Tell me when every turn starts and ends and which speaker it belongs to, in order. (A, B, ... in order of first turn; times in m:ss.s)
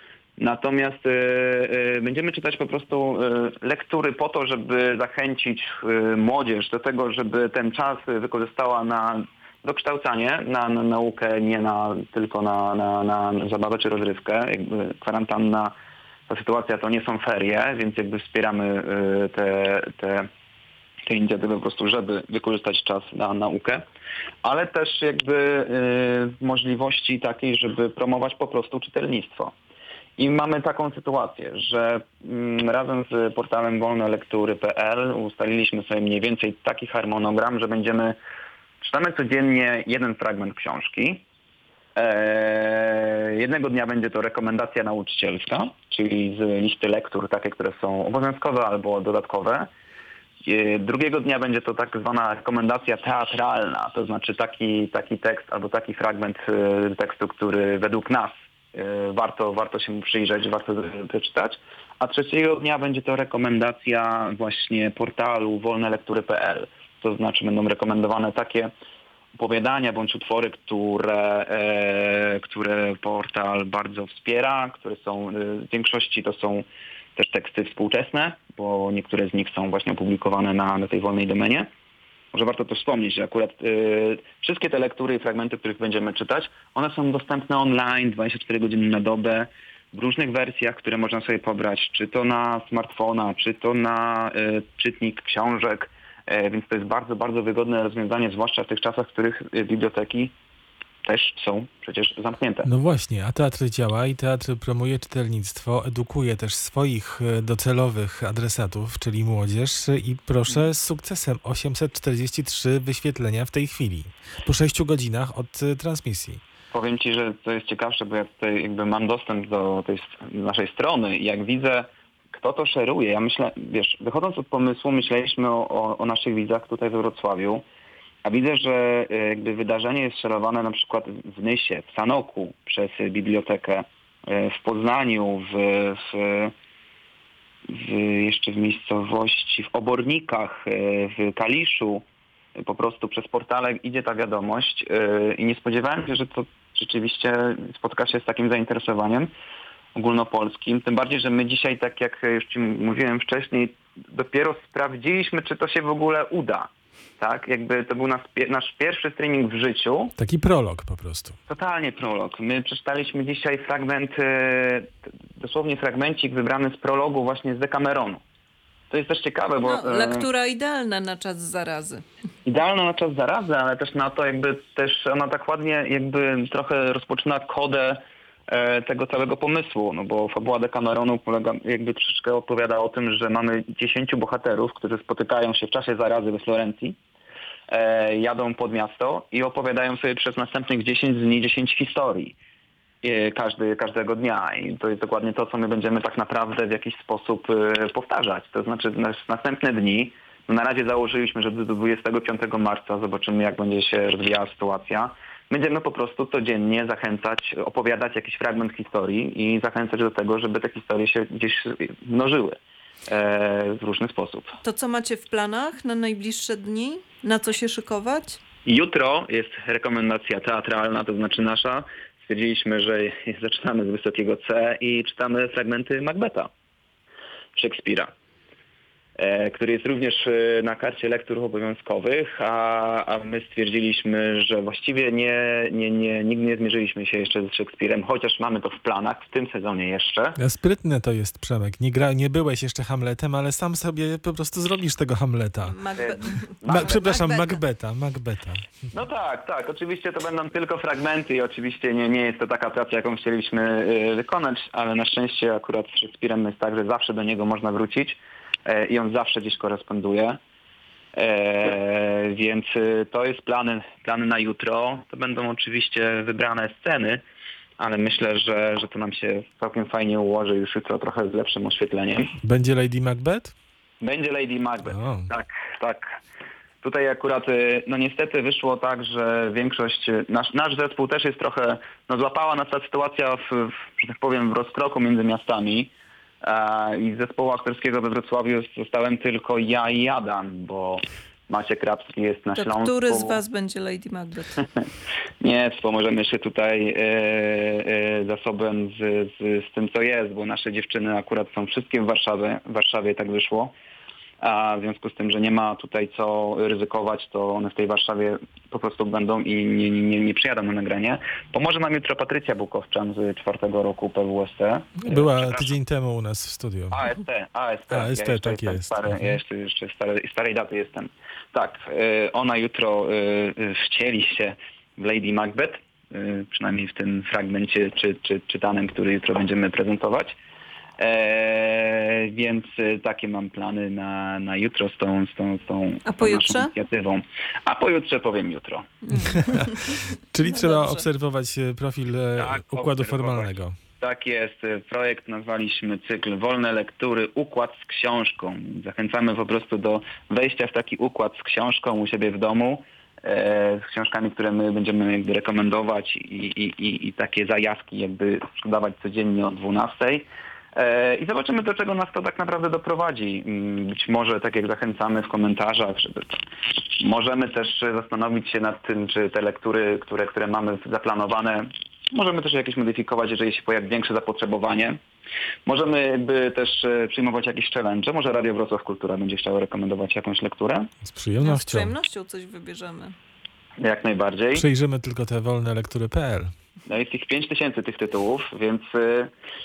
0:00.4-0:15.7 A
0:16.3-0:20.3 A
0:21.1-0:23.8 A
0:24.4-0:29.5 A
0:30.2-0:38.2 A
0:38.8-0:41.2 A
0:42.0-0:49.7 A
0:50.4-1:08.7 A
1:09.4-1:16.6 A
1:17.2-1:21.7 A
1:22.3-1:40.3 A
1:41.0-1:42.7 A
1:42.6-1:56.4 B
1:56.7-2:07.6 A
2:08.2-2:16.5 A
2:17.7-2:22.0 A
2:22.6-2:29.3 A
2:30.0-2:40.1 A
2:40.2-2:41.3 B
2:41.5-2:48.2 A
2:48.9-2:50.3 A
2:49.6-2:52.0 C
2:52.4-3:07.0 A
3:07.7-3:12.3 A
3:13.0-3:34.5 A
3:34.6-3:38.4 C
3:38.6-3:46.5 A
3:47.6-3:48.1 A
3:49.2-4:00.4 A
4:00.3-4:05.8 B
4:05.6-4:07.6 C
4:06.0-4:07.1 A
4:06.6-4:08.7 B
4:08.9-4:20.4 A
4:21.2-4:27.2 A
4:27.8-4:32.3 A
4:32.4-4:33.5 B
4:34.0-4:36.0 A
4:34.8-4:35.3 B
4:36.8-4:45.9 A
4:46.4-4:53.4 A
4:52.6-4:54.6 C
4:55.4-5:03.7 A
5:04.4-5:15.7 A
5:15.0-5:17.0 B
5:16.9-5:30.4 A
5:17.9-5:19.4 B
5:31.0-5:39.0 A
5:36.0-5:36.7 C
5:39.0-5:41.0 C
5:40.3-5:43.8 B
5:42.4-6:06.4 A
6:07.0-6:15.0 A
6:15.6-6:20.9 A
6:21.0-6:21.9 B
6:21.4-6:23.1 C
6:23.8-6:24.6 A
6:24.5-6:26.5 B
6:26.9-6:29.3 A